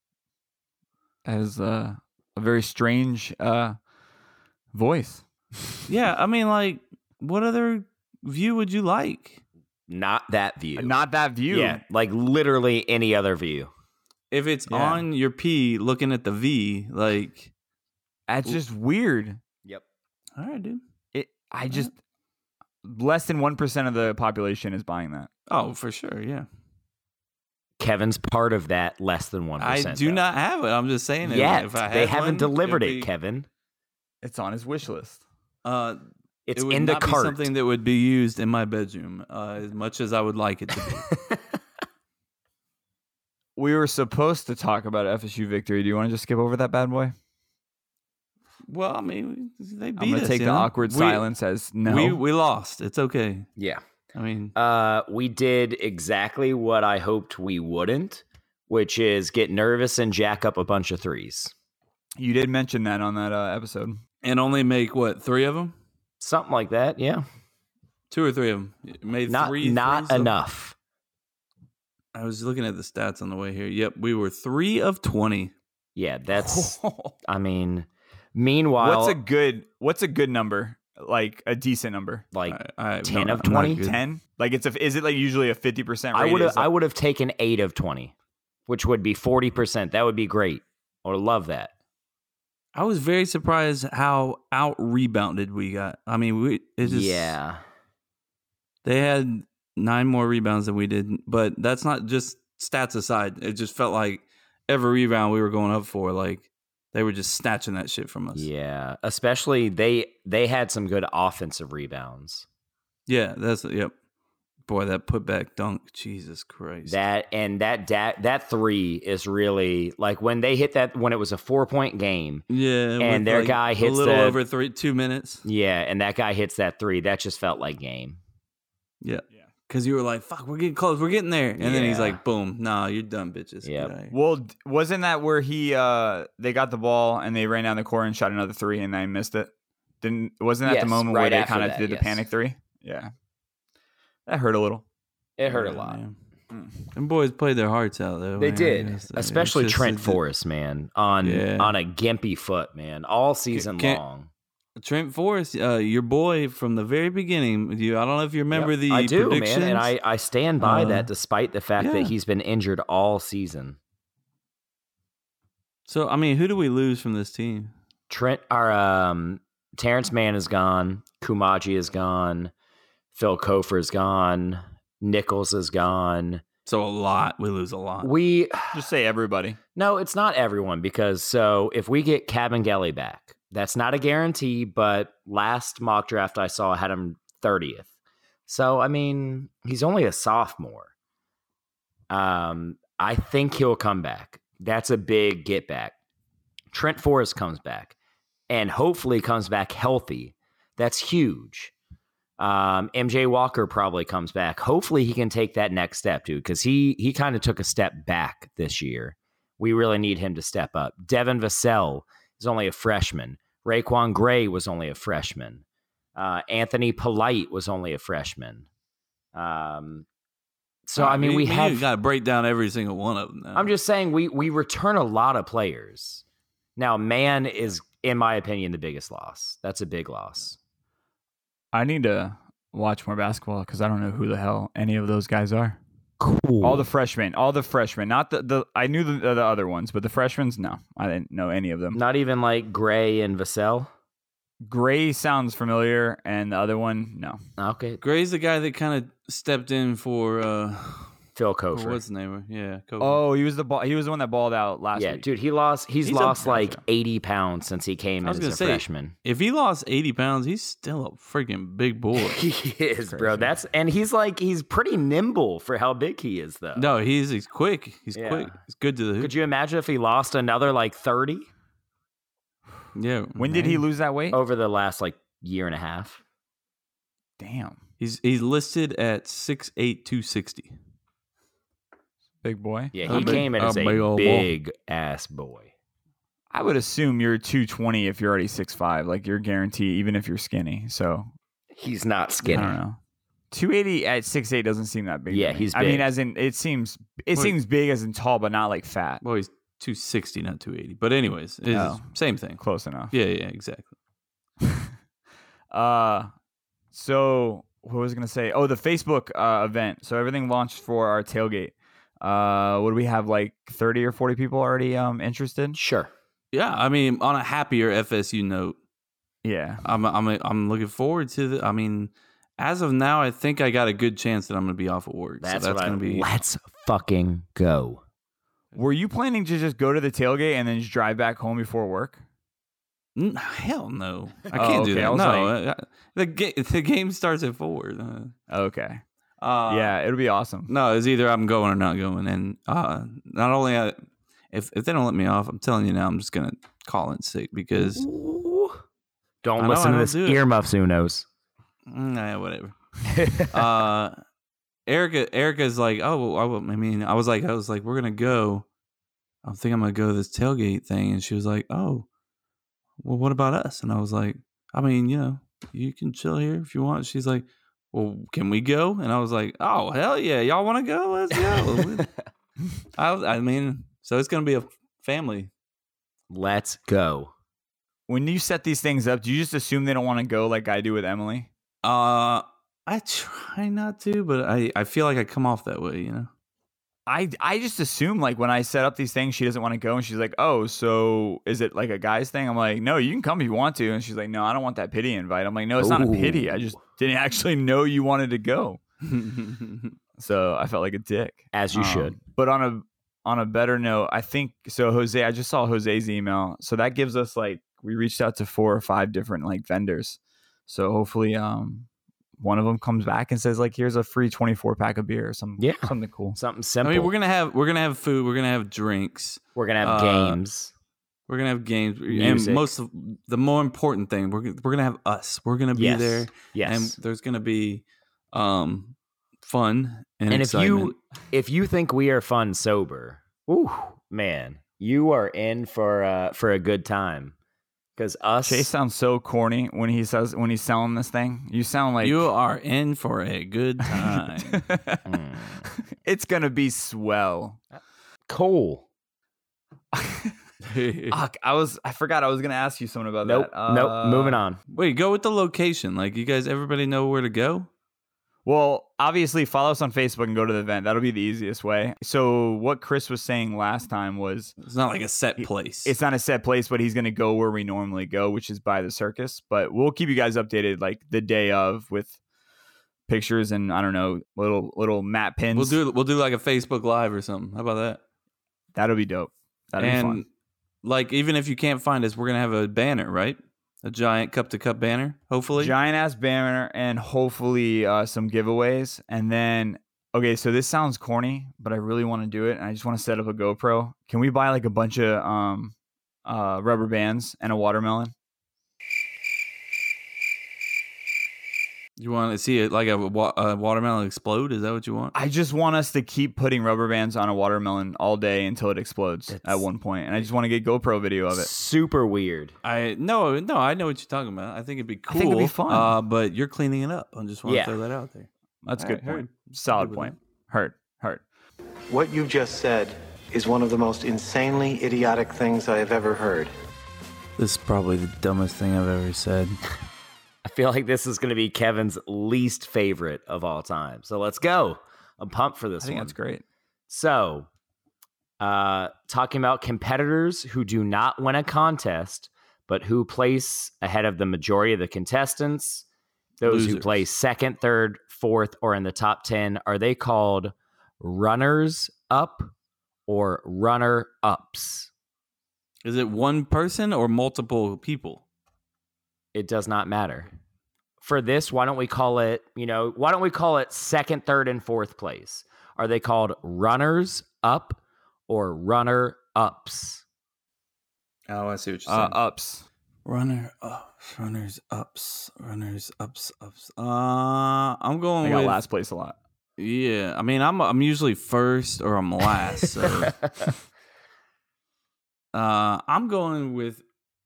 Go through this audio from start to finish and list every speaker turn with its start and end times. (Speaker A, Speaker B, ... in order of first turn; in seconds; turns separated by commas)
Speaker A: 1.2-3.8, Speaker A: 4.7-5.3, Speaker B: 5.9-9.4, Speaker C: 9.9-11.0, Speaker A: 10.8-11.8, Speaker C: 11.5-13.7, Speaker B: 14.3-17.5, Speaker A: 14.7-15.1, Speaker A: 18.3-19.4, Speaker B: 20.4-20.8, Speaker A: 21.1-22.0, Speaker A: 22.8-25.3, Speaker B: 25.5-26.5, Speaker C: 27.8-30.2, Speaker B: 29.6-33.1, Speaker C: 31.2-33.5, Speaker A: 34.2-35.2, Speaker B: 35.6-36.0, Speaker C: 36.5-37.5, Speaker B: 36.5-41.1, Speaker C: 41.1-41.4, Speaker A: 43.6-47.1, Speaker B: 48.7-51.3, Speaker A: 50.0-52.2, Speaker B: 51.9-53.5, Speaker C: 53.6-53.8, Speaker B: 54.1-54.5, Speaker C: 54.5-61.5, Speaker A: 62.2-64.0, Speaker B: 64.2-65.7, Speaker C: 66.2-67.2, Speaker B: 68.1-70.3, Speaker C: 69.3-70.8, Speaker B: 72.2-75.5, Speaker C: 76.0-79.2, Speaker A: 76.4-77.1, Speaker A: 78.8-82.3, Speaker C: 82.3-83.8, Speaker B: 82.5-84.0, Speaker A: 83.6-86.7, Speaker C: 86.1-88.1, Speaker C: 88.7-91.7, Speaker B: 92.8-97.4, Speaker C: 96.8-97.6, Speaker B: 98.8-108.5, Speaker C: 108.3-112.5, Speaker B: 113.1-113.9, Speaker B: 114.7-117.0, Speaker C: 116.9-122.5, Speaker B: 122.5-125.4, Speaker C: 123.0-124.4, Speaker C: 125.5-128.2, Speaker B: 129.0-134.2, Speaker C: 131.6-132.2, Speaker C: 133.6-133.9, Speaker A: 134.1-139.5, Speaker A: 140.0-143.1, Speaker C: 140.6-142.2, Speaker A: 144.3-144.8, Speaker C: 145.4-146.0, Speaker B: 145.5-146.2, Speaker B: 146.9-150.2, Speaker C: 148.4-154.3, Speaker B: 151.2-151.8, Speaker B: 153.5-154.0, Speaker B: 154.8-159.9, Speaker C: 158.5-163.8, Speaker B: 160.6-161.1, Speaker B: 161.8-162.1, Speaker B: 165.9-167.7, Speaker C: 168.1-172.5, Speaker C: 173.2-176.4, Speaker B: 176.7-178.1, Speaker C: 178.0-178.9, Speaker A: 178.7-179.6, Speaker C: 179.8-187.9, Speaker C: 188.5-190.9, Speaker C: 192.1-195.9, Speaker C: 196.7-197.9, Speaker C: 198.5-201.7, Speaker C: 202.4-215.6, Speaker C: 216.2-218.7, Speaker C: 219.3-220.1, Speaker C: 220.9-221.9, Speaker B: 221.0-223.7, Speaker C: 223.6-226.2, Speaker C: 226.8-230.6, Speaker A: 231.7-235.8, Speaker C: 236.2-236.9, Speaker A: 236.6-242.0, Speaker C: 241.9-243.9, Speaker A: 244.7-247.4, Speaker C: 247.6-248.0, Speaker B: 248.0-251.1, Speaker C: 251.3-252.0, Speaker B: 251.7-253.2, Speaker A: 253.0-255.3, Speaker C: 254.9-259.1, Speaker A: 256.0-256.8, Speaker B: 258.2-262.4, Speaker C: 262.2-266.9, Speaker A: 263.1-263.5, Speaker B: 266.8-269.4, Speaker C: 268.1-268.5, Speaker C: 269.2-271.5, Speaker B: 272.9-273.9, Speaker A: 273.4-274.4, Speaker C: 274.3-276.2, Speaker A: 277.4-277.8, Speaker B: 278.0-280.8, Speaker A: 282.4-283.5, Speaker C: 282.9-285.7, Speaker B: 283.1-284.5, Speaker A: 286.5-291.3, Speaker C: 291.7-292.8, Speaker A: 292.4-293.0, Speaker A: 293.5-299.2, Speaker C: 295.3-296.1, Speaker B: 299.2-303.9, Speaker A: 301.7-302.1, Speaker A: 302.6-303.1, Speaker A: 304.6-304.9, Speaker A: 305.7-306.3, Speaker A: 306.9-315.8, Speaker C: 315.7-316.1, Speaker B: 316.5-318.8, Speaker A: 319.4-319.8, Speaker B: 319.8-326.3, Speaker C: 325.4-328.0, Speaker A: 328.8-332.2, Speaker B: 333.2-338.4, Speaker A: 334.5-335.5, Speaker A: 338.5-339.0, Speaker B: 339.4-339.9, Speaker A: 339.7-340.7, Speaker B: 340.7-344.0, Speaker B: 344.5-348.1, Speaker C: 347.8-348.8, Speaker C: 349.4-351.3, Speaker B: 349.6-350.4, Speaker B: 351.9-352.8, Speaker C: 353.1-353.6, Speaker B: 353.4-354.2, Speaker B: 354.9-358.7, Speaker B: 359.4-362.1, Speaker B: 363.0-372.1, Speaker C: 371.3-372.1, Speaker B: 373.0-375.5, Speaker C: 376.3-377.3, Speaker A: 378.1-381.5, Speaker B: 381.8-386.3, Speaker A: 387.1-398.8, Speaker C: 395.8-396.8, Speaker B: 399.0-399.9, Speaker A: 400.2-411.9, Speaker C: 401.5-402.2, Speaker A: 412.4-416.4, Speaker C: 415.6-417.1, Speaker B: 416.8-420.4, Speaker C: 419.6-420.7, Speaker B: 421.3-430.9, Speaker C: 422.1-422.7, Speaker C: 425.8-427.0, Speaker C: 430.3-437.4, Speaker C: 438.0-438.7, Speaker A: 438.5-442.2, Speaker B: 442.0-444.6, Speaker A: 443.9-445.1, Speaker C: 445.1-445.6, Speaker A: 445.6-447.6, Speaker C: 447.7-448.9, Speaker A: 449.9-450.4, Speaker B: 450.6-451.2, Speaker A: 451.1-454.4, Speaker C: 453.2-454.6, Speaker B: 454.7-457.7, Speaker A: 458.4-464.5, Speaker B: 464.6-465.9, Speaker A: 465.4-472.2, Speaker A: 473.1-475.8, Speaker B: 475.5-478.0, Speaker A: 478.8-480.2, Speaker B: 479.8-480.3, Speaker B: 480.8-485.8, Speaker A: 485.6-495.7, Speaker A: 496.3-498.1, Speaker B: 502.0-505.1, Speaker A: 505.1-511.5, Speaker C: 509.3-509.7, Speaker C: 511.3-512.5, Speaker B: 512.6-520.2, Speaker A: 515.1-516.0, Speaker C: 517.5-517.8, Speaker A: 518.6-521.2, Speaker D: 521.9-526.5, Speaker B: 527.4-529.6, Speaker C: 530.4-536.2, Speaker A: 535.8-536.4, Speaker C: 536.9-537.5, Speaker C: 538.4-545.9, Speaker C: 546.4-552.5, Speaker B: 546.5-547.0, Speaker C: 553.1-554.9, Speaker B: 555.9-558.2, Speaker C: 559.3-560.3, Speaker C: 561.0-570.0, Speaker B: 571.3-572.2, Speaker A: 571.9-572.6, Speaker B: 573.0-578.6, Speaker A: 578.2-579.2, Speaker B: 579.6-583.2, Speaker C: 583.2-583.5, Speaker B: 585.3-586.8